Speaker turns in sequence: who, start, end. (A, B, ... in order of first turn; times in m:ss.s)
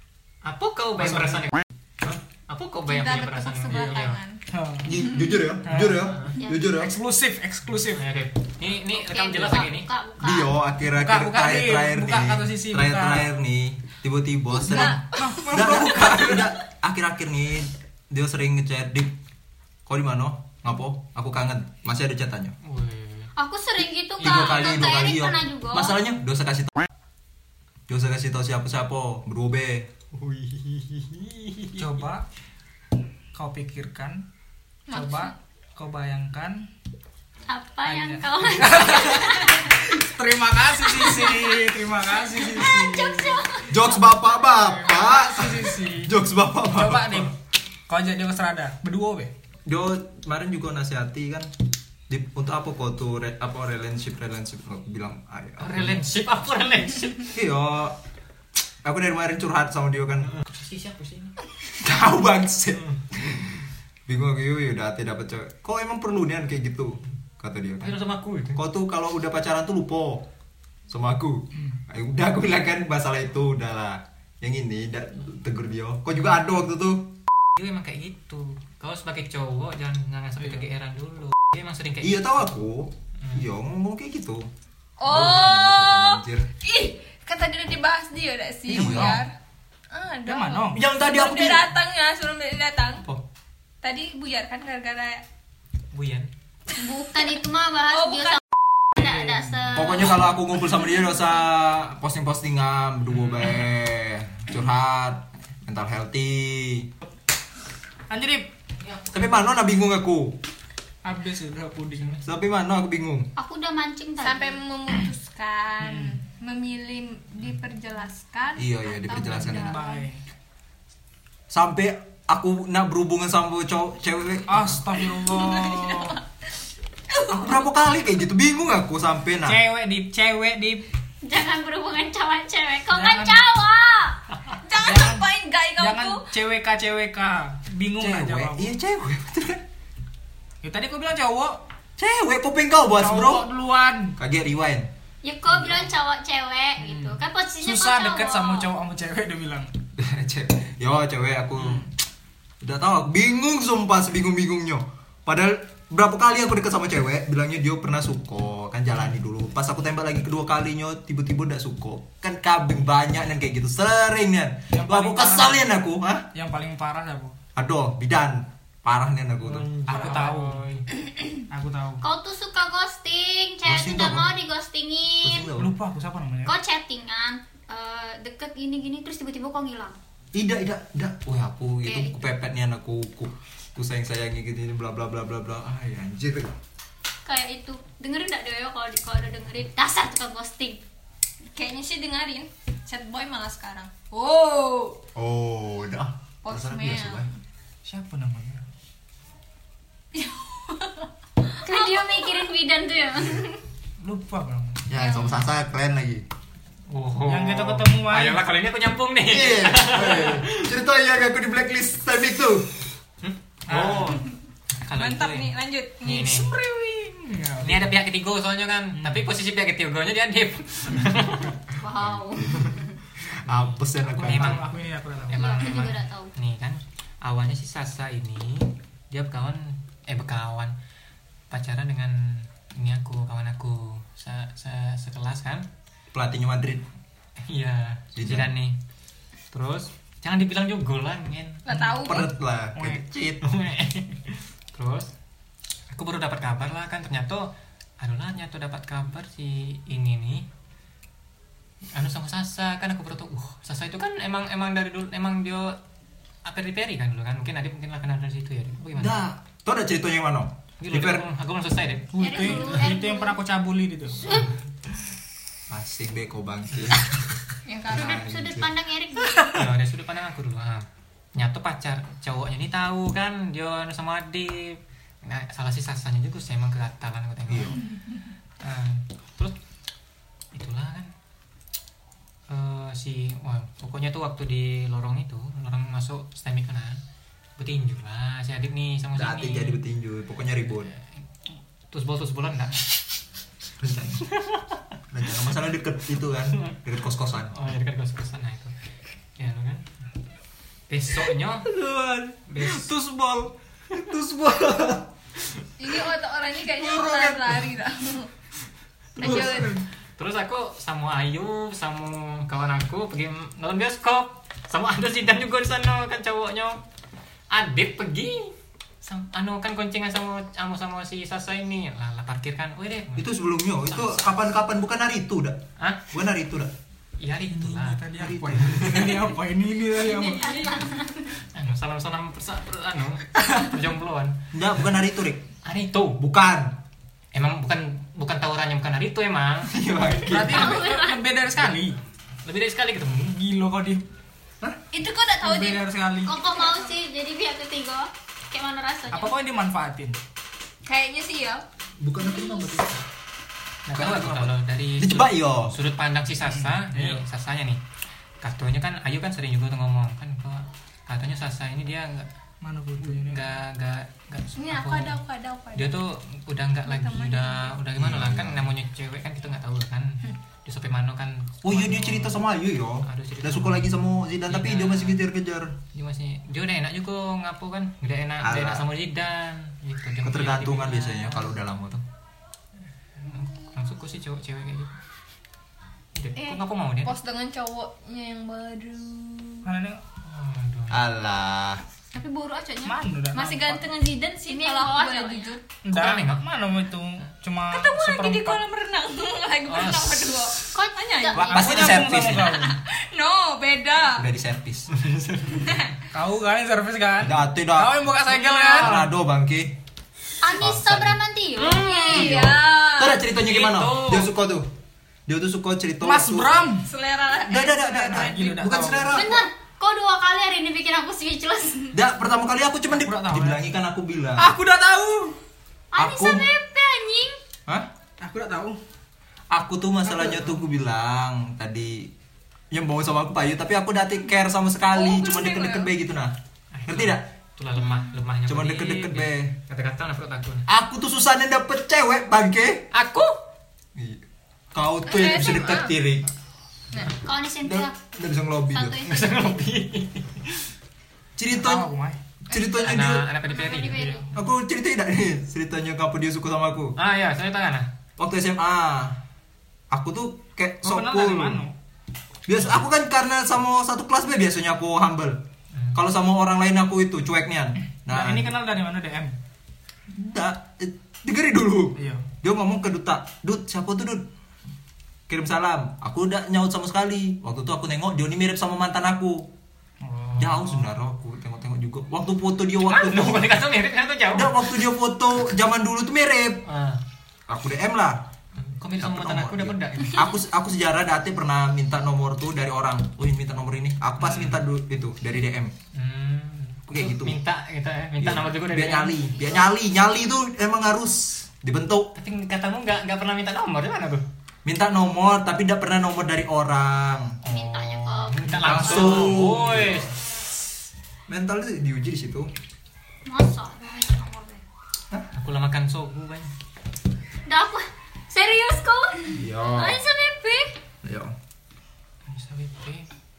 0:00.4-0:01.6 A
0:01.0-0:01.5 B
0:02.5-0:04.2 A
0:02.9-0:04.4 C
0:03.7-0:05.1 B
0:04.8-0:07.0 D
0:05.6-0:06.1 B
0:06.0-0:06.4 A
0:06.4-0:06.9 E
0:06.7-0:08.0 B
0:07.9-0:09.9 A
0:08.9-0:10.5 E
0:10.2-0:19.1 D
0:10.9-0:13.3 B
0:14.6-0:15.6 C
0:14.7-0:16.5 B
0:19.9-0:22.6 D
0:22.6-0:23.3 A
0:23.4-0:26.0 E
0:24.2-0:24.9 A
0:24.2-0:26.9 D
0:27.9-0:30.0 D
0:30.1-0:31.8 A
0:31.8-0:32.3 B
0:33.3-0:34.2 B
0:34.9-0:35.3 C
0:34.9-0:36.7 B
0:37.5-0:39.7 E
0:37.9-0:43.4 B
0:41.1-0:41.4 E
0:42.5-0:44.0 E
0:43.7-0:47.3 D
0:44.4-0:46.1 B
0:46.6-0:47.3 B
0:47.9-0:49.3 B
0:49.7-0:51.5 D
0:52.1-0:56.0 D
0:55.6-0:57.3 A
0:57.3-0:58.0 D
0:58.8-1:00.4 D
1:00.3-1:01.3 A
1:01.8-1:08.0 D
1:07.8-1:08.6 A
1:08.5-1:10.3 D
1:10.9-1:17.1 D
1:17.6-1:22.4 A
1:20.4-1:20.7 B
1:22.0-1:24.5 D
1:23.2-1:23.4 A
1:25.0-1:29.3 C
1:25.1-1:26.5 D
1:28.7-1:29.2 D
1:28.7-1:29.2 B
1:29.9-1:33.0 C
1:30.2-1:30.8 B
1:30.7-1:31.7 D
1:33.8-1:35.2 C
1:35.9-1:36.3 A
1:36.7-1:38.4 E
1:38.0-1:38.4 C
1:38.9-1:40.4 E
1:39.0-1:39.7 B
1:39.7-1:46.9 D
1:48.1-1:48.5 B
1:49.1-1:50.4 D
1:51.0-1:52.2 B
1:52.2-1:53.3 D
1:53.4-1:54.6 E
1:54.2-2:00.1 C
1:55.8-1:56.2 B
1:58.6-1:59.8 D
1:59.3-2:00.2 B
2:01.5-2:04.8 D
2:04.5-2:06.2 B
2:05.2-2:06.2 C
2:07.1-2:07.5 C
2:07.3-2:09.6 D
2:09.4-2:10.9 B
2:11.2-2:14.2 E
2:12.9-2:13.4 B
2:14.6-2:16.2 C
2:14.8-2:15.2 B
2:15.8-2:18.7 B
2:18.0-2:19.6 D
2:20.6-2:21.6 B
2:22.0-2:23.5 D
2:22.9-2:24.2 B
2:24.2-2:24.9 D
2:25.2-2:28.7 E
2:26.8-2:29.7 B
2:30.0-2:31.9 D
2:31.6-2:31.9 B
2:32.6-2:46.2 D
2:44.7-2:45.7 B
2:46.3-2:47.4 B
2:47.6-2:50.1 D
2:49.4-2:50.8 A
2:49.9-2:50.6 B
2:51.5-2:52.0 B
2:52.0-2:55.5 E
2:53.7-2:54.3 D
2:55.2-2:55.7 D
2:55.6-2:56.6 B
2:56.5-3:00.0 E
3:00.3-3:06.5 D
3:01.8-3:02.2 E
3:07.3-3:10.8 E
3:11.5-3:15.0 C
3:15.2-3:17.3 D
3:16.4-3:17.3 C
3:17.8-3:18.7 B
3:20.1-3:22.5 C
3:21.6-3:23.5 E
3:24.0-3:24.9 B
3:24.9-3:26.2 D
3:26.9-3:30.7 A
3:27.3-3:28.4 B
3:29.3-3:32.7 D
3:33.2-3:34.3 A
3:33.7-3:34.2 B
3:33.7-3:34.1 D
3:34.8-3:36.5 A
3:34.9-3:36.5 C
3:36.1-3:37.9 B
3:37.6-3:41.6 A
3:39.0-3:39.3 B
3:41.8-3:43.0 E
3:43.3-3:44.6 D
3:43.5-3:44.7 A
3:44.1-3:45.4 B
3:45.3-3:50.7 A
3:45.3-3:46.3 E
3:51.5-3:55.6 A
3:56.1-3:56.8 D
3:57.5-3:58.8 A
3:58.2-3:58.5 D
3:59.5-4:01.6 A
4:01.6-4:02.3 C
4:01.7-4:03.0 B
4:02.0-4:03.5 D
4:03.4-4:05.1 A
4:05.9-4:10.5 A
4:11.9-4:15.8 A
4:16.4-4:19.3 A
4:19.0-4:21.2 D
4:20.8-4:22.7 A
4:22.1-4:24.3 B
4:22.2-4:23.4 E
4:24.2-4:24.5 E
4:25.7-4:27.3 D
4:27.7-4:28.2 C
4:27.9-4:28.7 D
4:27.9-4:29.6 E
4:29.5-4:37.8 A
4:37.5-4:37.8 D
4:38.6-4:39.5 A
4:40.5-4:41.1 A
4:42.5-4:47.0 A
4:47.6-4:49.8 A
4:49.2-4:50.9 D
4:51.9-4:53.0 A
4:53.8-4:54.3 D
4:54.3-4:54.6 A
4:55.1-4:57.6 D
4:57.5-4:58.7 A
4:59.4-4:59.9 A
5:00.9-5:01.7 A
5:01.7-5:02.4 D
5:02.5-5:02.9 A
5:02.6-5:03.5 B
5:03.9-5:05.1 D
5:05.8-5:08.3 C
5:06.8-5:07.4 D
5:09.2-5:09.9 B
5:09.2-5:09.8 C
5:10.2-5:16.8 A
5:17.5-5:23.3 A
5:23.2-5:26.7 D
5:23.9-5:24.4 A
5:25.8-5:26.0 A
5:27.2-5:28.1 A
5:27.5-5:30.8 B
5:28.2-5:29.1 D
5:30.1-5:31.0 E
5:30.5-5:30.9 C
5:31.5-5:34.4 A
5:34.5-5:35.5 D
5:35.6-5:36.2 A
5:36.2-5:36.8 D
5:37.3-5:39.8 A
5:39.7-5:40.8 D
5:40.3-5:42.0 B
5:40.4-5:41.2 E
5:42.4-5:43.4 A
5:43.2-5:44.1 B
5:44.9-5:45.8 C
5:45.4-5:46.4 B
5:46.3-5:49.3 E
5:46.4-5:46.9 C
5:49.1-5:50.2 B
5:50.9-5:51.6 C
5:52.0-5:53.0 D
5:53.9-5:57.8 A
5:53.9-5:55.8 D
5:56.4-5:57.2 B
5:58.4-6:02.3 A
6:02.6-6:03.5 B
6:03.0-6:05.2 A
6:04.6-6:06.0 C
6:05.8-6:12.4 A
6:06.8-6:07.7 C
6:08.0-6:08.7 D
6:11.6-6:15.7 D
6:13.1-6:15.2 A
6:15.9-6:21.6 A
6:18.4-6:18.9 D
6:20.2-6:22.0 D
6:23.2-6:24.9 A
6:26.2-6:27.2 A
6:26.4-6:29.7 C
6:29.6-6:30.0 B
6:30.2-6:31.0 A
6:30.9-6:31.8 D
6:32.1-6:35.6 C
6:32.8-6:33.8 B
6:34.5-6:35.6 E
6:35.8-6:38.6 B
6:35.9-6:36.4 A
6:37.7-6:44.3 C
6:39.7-6:40.5 A
6:40.7-6:41.6 E
6:41.3-6:42.6 D
6:41.5-6:42.8 B
6:44.2-6:44.9 D
6:44.9-6:45.7 A
6:45.6-6:45.9 C
6:46.1-6:48.9 B
6:47.2-6:48.0 D
6:48.3-6:49.1 A
6:48.8-6:49.8 D
6:50.4-6:52.1 E
6:50.5-6:51.2 D
6:51.7-6:53.2 C
6:51.9-6:52.4 A
6:52.0-6:54.7 D
6:53.4-6:54.3 A
6:55.3-6:56.6 D
6:56.0-6:56.9 B
6:56.8-6:58.4 C
6:57.4-6:59.5 D
6:58.0-6:59.3 B
6:59.1-7:01.9 E
7:01.9-7:04.5 D
7:02.9-7:03.6 B
7:04.4-7:05.4 B
7:05.9-7:07.4 E
7:06.0-7:06.5 D
7:08.2-7:08.8 B
7:09.5-7:12.1 D
7:12.7-7:16.3 D
7:14.9-7:15.9 C
7:16.7-7:20.7 A
7:16.9-7:17.3 D
7:18.5-7:19.5 D
7:20.7-7:22.9 D
7:22.9-7:23.4 A
7:24.0-7:26.3 D
7:25.0-7:26.0 C
7:27.2-7:28.0 E
7:27.6-7:29.0 D
7:28.7-7:29.6 E
7:29.0-7:30.7 A
7:31.4-7:31.9 D
7:31.5-7:32.2 B
7:32.4-7:33.3 D
7:32.5-7:34.3 A
7:33.5-7:34.3 E
7:34.3-7:37.0 D
7:37.0-7:37.9 A
7:38.2-7:39.2 D
7:39.9-7:41.6 D
7:40.8-7:41.7 B
7:42.5-7:45.4 D
7:45.9-7:48.5 D
7:48.1-7:49.4 B
7:50.1-7:54.3 D
7:52.0-7:52.3 B
7:55.3-7:59.5 D
8:00.0-8:00.9 B
8:00.4-8:03.5 D
8:02.8-8:04.6 A
8:04.3-8:06.6 D
8:06.7-8:07.0 A
8:07.5-8:08.2 D
8:08.6-8:10.3 A
8:09.0-8:15.7 D
8:14.2-8:14.6 A
8:15.9-8:19.2 A
8:16.9-8:17.4 D
8:18.2-8:22.1 D
8:22.2-8:24.2 A
8:24.6-8:27.4 D
8:27.4-8:30.1 A
8:27.5-8:29.4 E
8:28.6-8:30.1 D
8:31.3-8:32.5 D
8:33.3-8:34.6 E
8:35.3-8:36.5 A
8:37.5-8:40.8 E
8:39.3-8:40.0 D
8:41.0-8:41.4 D
8:42.3-8:43.1 A